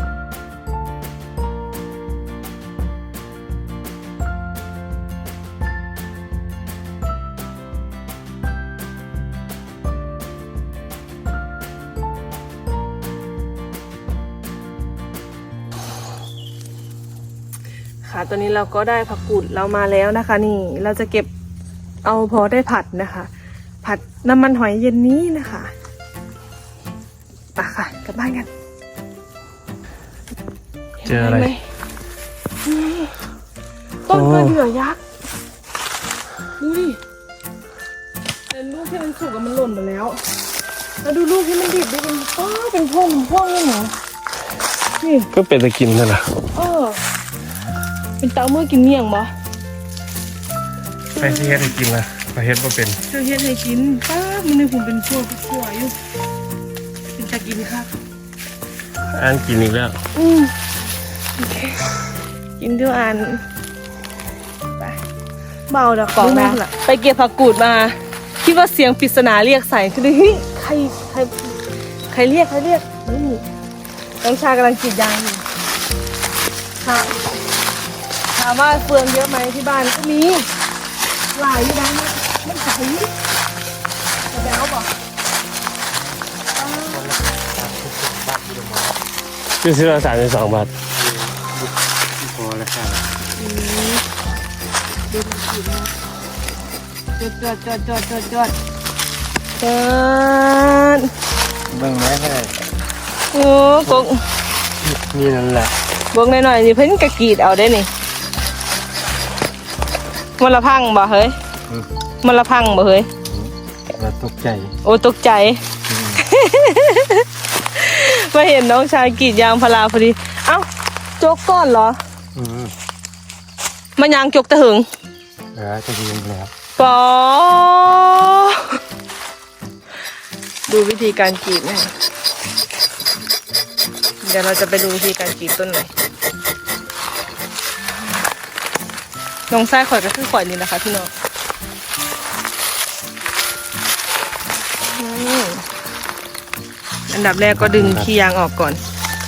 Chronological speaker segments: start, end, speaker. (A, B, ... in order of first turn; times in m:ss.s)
0:18.0-0:21.3 A
0:22.0-0:23.3 A
0:23.8-0:25.7 A
0:27.6-0:28.5 A
0:31.0-0:31.6 A
0:31.0-0:31.5 B
0:32.6-0:33.1 A
0:34.1-0:35.0 A
0:34.1-0:34.6 B
0:36.6-0:37.0 A
0:38.5-0:40.2 A
0:41.0-0:44.0 A
0:45.0-0:45.3 A
0:45.3-0:46.3 B
0:46.5-0:47.0 A
0:48.2-0:49.3 A
0:51.2-0:51.7 A
0:51.2-0:53.0 B
0:53.1-0:56.0 A
0:57.2-0:57.9 A
0:59.1-1:00.0 B
1:00.1-1:00.5 A
1:01.4-1:01.9 A
1:02.6-1:03.4 A
1:05.7-1:11.6 A
1:12.1-1:13.4 A
1:14.2-1:15.4 A
1:16.8-1:17.2 A
1:18.3-1:20.5 A
1:21.3-1:23.1 A
1:24.3-1:24.9 A
1:26.6-1:27.0 A
1:26.6-1:29.0 C
1:29.6-1:30.7 B
1:31.0-1:33.0 C
1:33.4-1:34.0 A
1:35.1-1:35.9 A
1:37.2-1:38.5 A
1:39.6-1:41.1 A
1:41.7-1:42.6 C
1:43.3-1:44.2 A
1:44.8-1:45.7 C
1:46.1-1:47.9 A
1:50.4-1:51.4 A
1:52.2-1:53.1 A
1:53.2-1:54.7 C
1:54.8-1:55.6 A
1:55.9-1:56.2 C
1:56.2-2:00.7 A
2:01.2-2:02.0 A
2:02.3-2:02.7 C
2:04.0-2:04.8 A
2:05.5-2:06.5 C
2:06.8-2:08.8 A
2:10.7-2:11.9 A
2:14.2-2:15.9 A
2:19.5-2:21.1 A
2:24.9-2:25.6 A
2:27.1-2:28.8 A
2:27.5-2:28.1 C